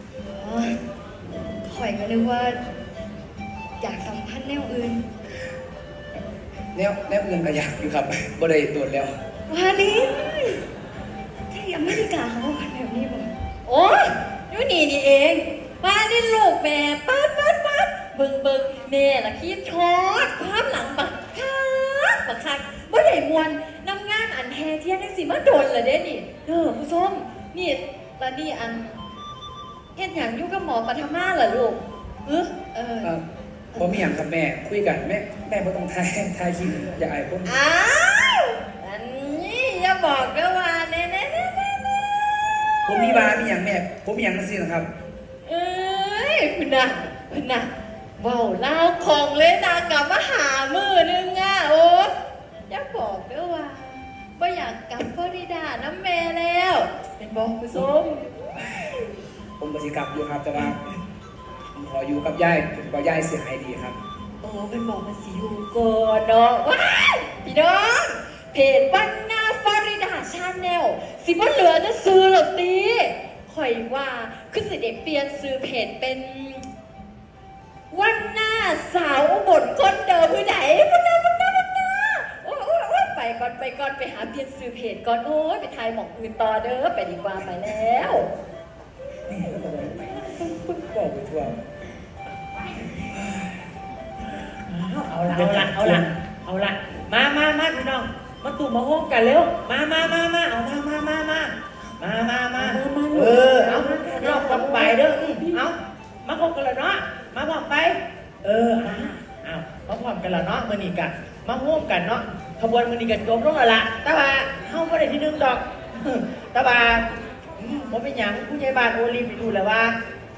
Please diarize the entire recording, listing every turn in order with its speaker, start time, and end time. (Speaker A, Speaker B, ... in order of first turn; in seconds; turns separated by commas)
Speaker A: 0.4-0.8, Speaker A: 1.6-2.6, Speaker A: 3.8-5.0, Speaker B: 6.7-9.1, Speaker A: 9.5-10.6, Speaker A: 11.5-13.3, Speaker C: 13.7-29.0, Speaker C: 29.9-33.1, Speaker B: 33.7-37.5, Speaker C: 37.4-42.3, Speaker B: 42.8-44.9, Speaker C: 45.5-52.1, Speaker C: 52.7-58.3, Speaker B: 59.6-60.8, Speaker B: 61.7-64.0, Speaker C: 64.4-76.6, Speaker C: 77.9-88.3, Speaker B: 89.3-91.6, Speaker D: 94.7-117.0, Speaker B: 95.4-96.0, Speaker C: 103.5-103.8, Speaker D: 117.6-120.0